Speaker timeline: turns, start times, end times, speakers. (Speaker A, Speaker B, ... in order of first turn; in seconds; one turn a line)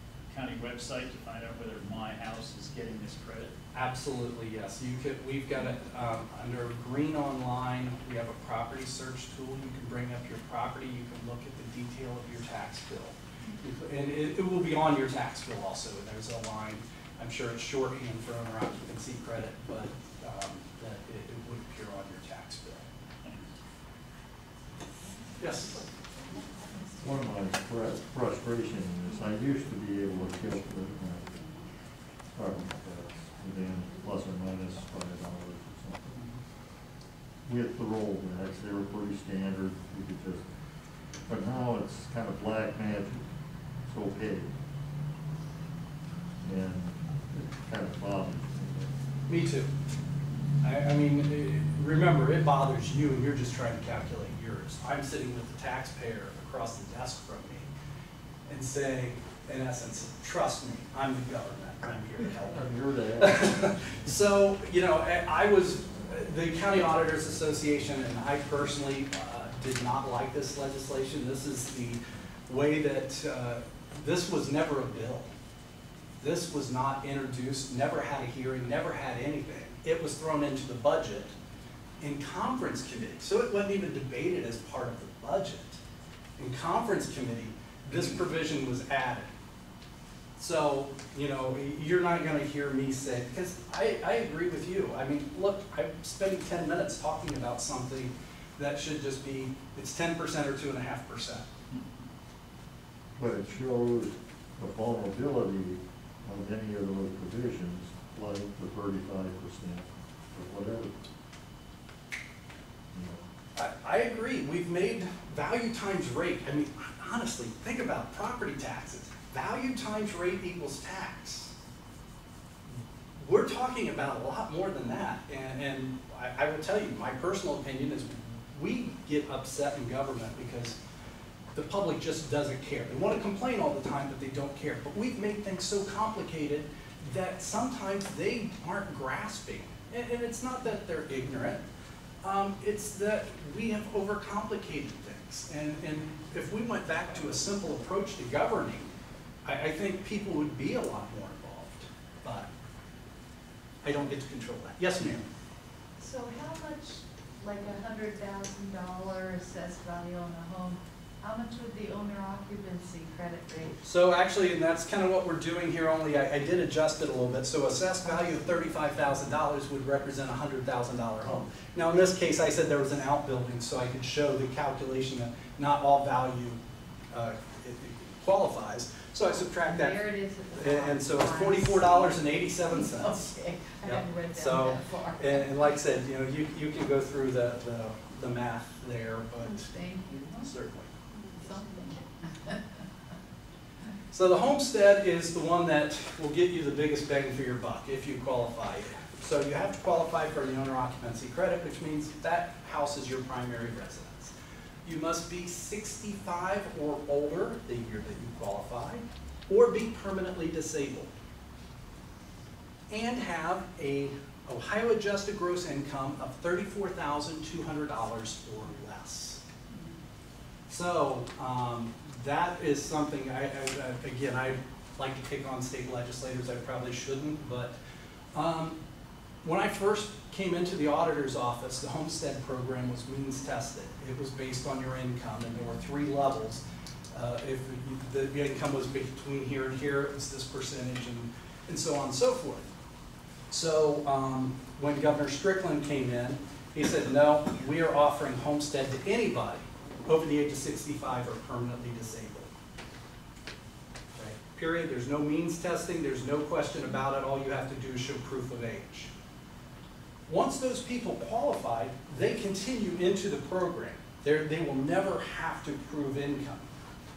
Speaker A: 0.3-3.5
Speaker B: 3.7-22.8
Speaker B: 25.4-25.8
Speaker C: 27.0-31.3
Speaker C: 32.3-36.2
Speaker C: 37.5-40.4
Speaker C: 41.3-43.2
Speaker C: 43.9-44.5
Speaker C: 46.4-48.9
Speaker B: 49.3-49.7
Speaker B: 50.6-57.7
Speaker B: 58.5-62.6
Speaker C: 62.5-63.6
Speaker B: 63.2-75.3
Speaker B: 76.2-81.3
Speaker B: 82.0-85.8
Speaker B: 86.4-89.3
Speaker B: 90.4-101.5
Speaker C: 103.2-111.0
Speaker C: 112.9-113.2
Speaker B: 113.5-121.5
Speaker B: 122.7-130.7
Speaker B: 131.5-141.6
Speaker B: 142.2-148.9
Speaker B: 149.4-152.5
Speaker B: 153.8-155.2
Speaker D: 156.0-163.8
Speaker B: 163.8-183.2
Speaker D: 179.6-185.7
Speaker B: 183.8-189.7
Speaker D: 189.4-190.4
Speaker B: 190.4-190.9
Speaker D: 191.1-192.6
Speaker B: 194.1-204.3
Speaker B: 204.8-211.1
Speaker B: 212.9-219.4
Speaker B: 220.7-227.7
Speaker B: 228.3-228.8
Speaker B: 229.4-236.6
Speaker B: 237.1-242.6
Speaker B: 243.5-252.5
Speaker B: 254.2-259.1
Speaker B: 260.3-266.7